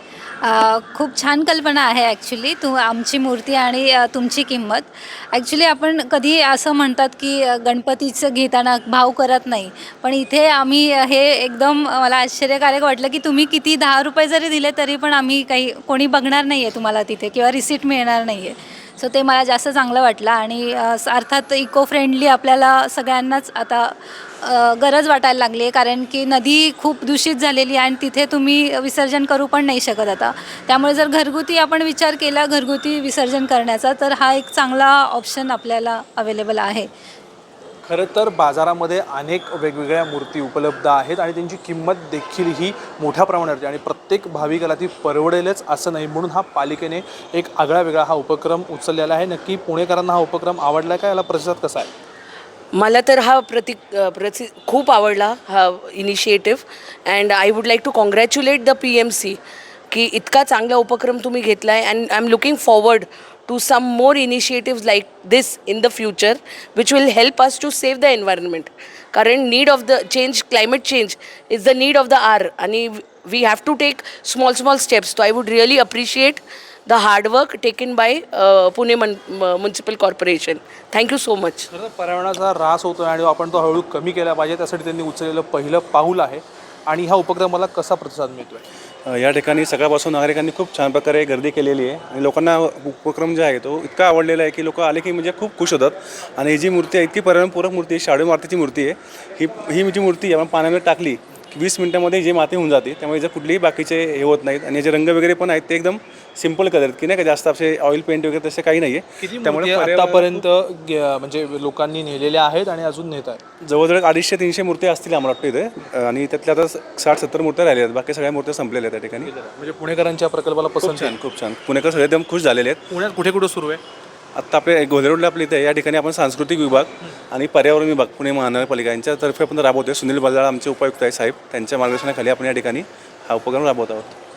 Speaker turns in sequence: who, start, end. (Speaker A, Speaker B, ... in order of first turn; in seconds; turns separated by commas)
Speaker A: 0.4-36.9, Speaker B: 37.9-51.9, Speaker C: 52.7-59.4, Speaker C: 59.9-81.7, Speaker B: 81.7-88.6, Speaker D: 89.0-110.5, Speaker B: 109.2-113.4, Speaker D: 113.7-119.3, Speaker B: 119.1-121.2, Speaker D: 120.8-122.8, Speaker B: 122.9-123.8, Speaker D: 124.3-134.2